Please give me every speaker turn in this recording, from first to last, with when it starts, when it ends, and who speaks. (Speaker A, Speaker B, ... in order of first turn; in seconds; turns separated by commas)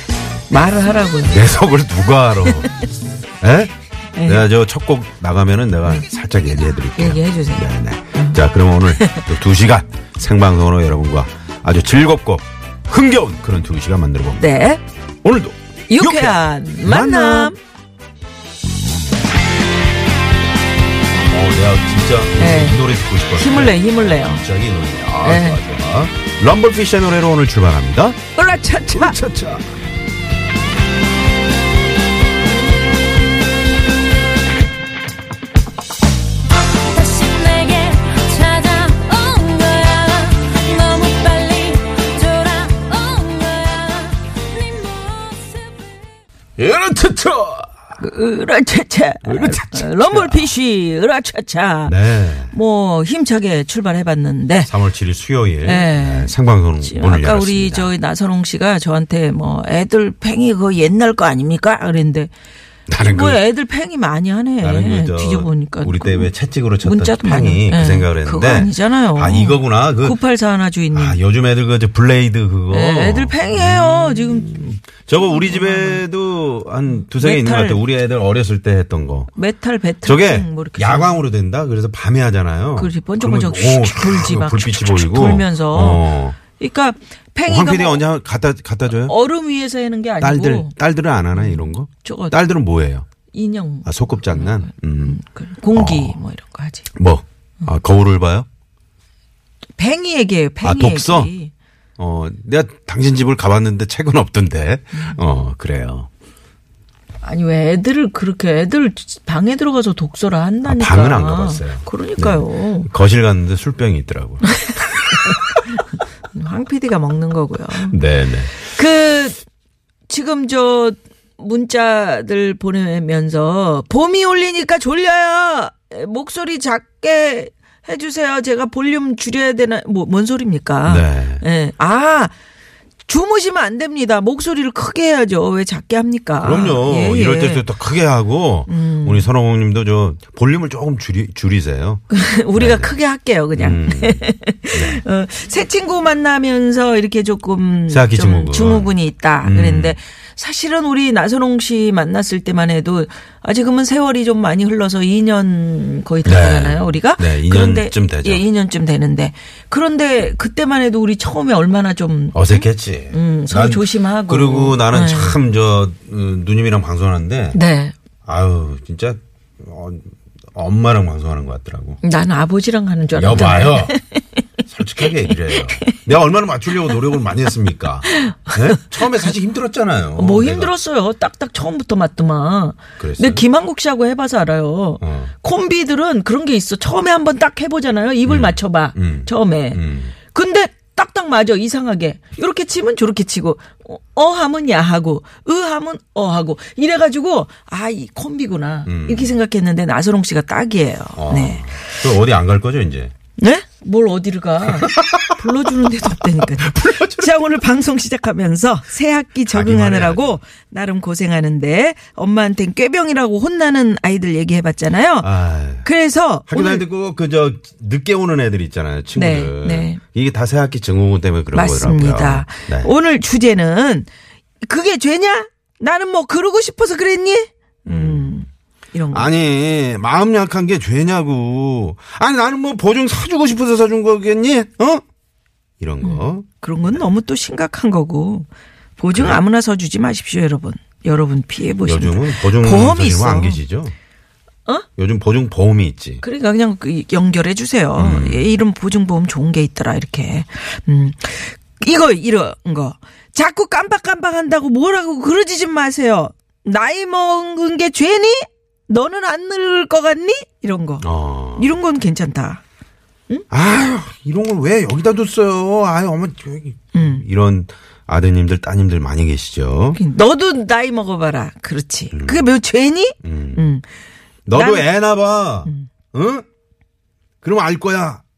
Speaker A: 0.5-1.5, Speaker B: 1.3-2.7, Speaker B: 3.4-3.7, Speaker A: 4.2-4.5, Speaker B: 4.2-14.5, Speaker A: 7.0-8.4, Speaker A: 8.9-9.3, Speaker A: 14.4-14.8, Speaker B: 15.2-17.5, Speaker A: 15.9-17.6, Speaker B: 21.3-28.2, Speaker A: 22.4-24.4, Speaker A: 25.2-25.6, Speaker A: 28.4-29.2, Speaker B: 28.9-29.7, Speaker C: 36.9-38.8, Speaker A: 38.5-39.6, Speaker C: 39.6-43.7, Speaker A: 43.0-44.2, Speaker C: 44.6-45.3, Speaker A: 45.1-45.5, Speaker B: 46.6-47.7, Speaker A: 48.0-54.7, Speaker B: 49.3-50.5, Speaker B: 51.9-52.5, Speaker B: 54.7-57.9, Speaker A: 55.6-62.3, Speaker B: 62.9-63.4, Speaker A: 63.0-66.3, Speaker B: 64.6-70.2, Speaker A: 66.8-71.2, Speaker B: 70.9-79.3, Speaker A: 72.7-76.0, Speaker A: 77.0-77.8, Speaker A: 79.3-81.2, Speaker B: 80.0-86.4, Speaker A: 82.8-88.0, Speaker B: 87.5-89.2, Speaker A: 88.9-90.7, Speaker B: 90.2-93.0, Speaker A: 91.3-92.4, Speaker A: 93.3-96.9, Speaker B: 93.9-95.2, Speaker B: 95.7-96.2, Speaker B: 96.9-98.5, Speaker A: 99.8-101.5, Speaker B: 100.6-101.3, Speaker B: 102.0-106.1, Speaker A: 107.2-112.9, Speaker B: 110.7-114.7, Speaker A: 116.3-118.0, Speaker B: 117.9-118.5, Speaker A: 118.6-119.4, Speaker A: 120.1-132.3, Speaker B: 130.9-131.4, Speaker A: 133.1-137.7, Speaker B: 136.4-142.9, Speaker A: 138.7-139.3, Speaker A: 142.1-165.4, Speaker B: 143.6-145.0, Speaker B: 147.9-148.9, Speaker B: 149.4-150.0, Speaker B: 156.2-158.4, Speaker B: 162.3-167.6, Speaker A: 167.5-167.9, Speaker B: 168.2-172.0, Speaker A: 172.0-174.0, Speaker B: 173.2-173.9, Speaker B: 174.7-180.7, Speaker A: 175.2-176.0, Speaker A: 178.1-178.5, Speaker A: 180.2-201.9, Speaker B: 183.0-183.4, Speaker B: 185.0-185.3, Speaker B: 188.3-190.1, Speaker B: 198.9-199.3, Speaker B: 201.2-203.1, Speaker A: 203.4-215.3, Speaker B: 204.6-207.6, Speaker B: 209.4-210.4, Speaker B: 215.2-215.9, Speaker A: 215.8-216.8, Speaker B: 216.5-222.9, Speaker A: 219.2-220.0, Speaker A: 221.5-224.1, Speaker A: 224.6-229.3, Speaker B: 227.9-228.5, Speaker B: 229.1-235.0, Speaker B: 235.8-237.0, Speaker A: 236.0-238.5, Speaker A: 239.0-243.6, Speaker B: 239.1-239.4, Speaker B: 241.9-243.9, Speaker B: 245.0-246.2, Speaker A: 246.2-262.6, Speaker B: 248.0-248.5, Speaker B: 261.0-261.8, Speaker B: 263.5-270.0, Speaker A: 266.9-267.2, Speaker A: 269.9-273.9, Speaker B: 272.1-272.5, Speaker B: 273.2-273.7, Speaker B: 274.5-276.4, Speaker A: 274.5-274.9, Speaker B: 277.4-278.2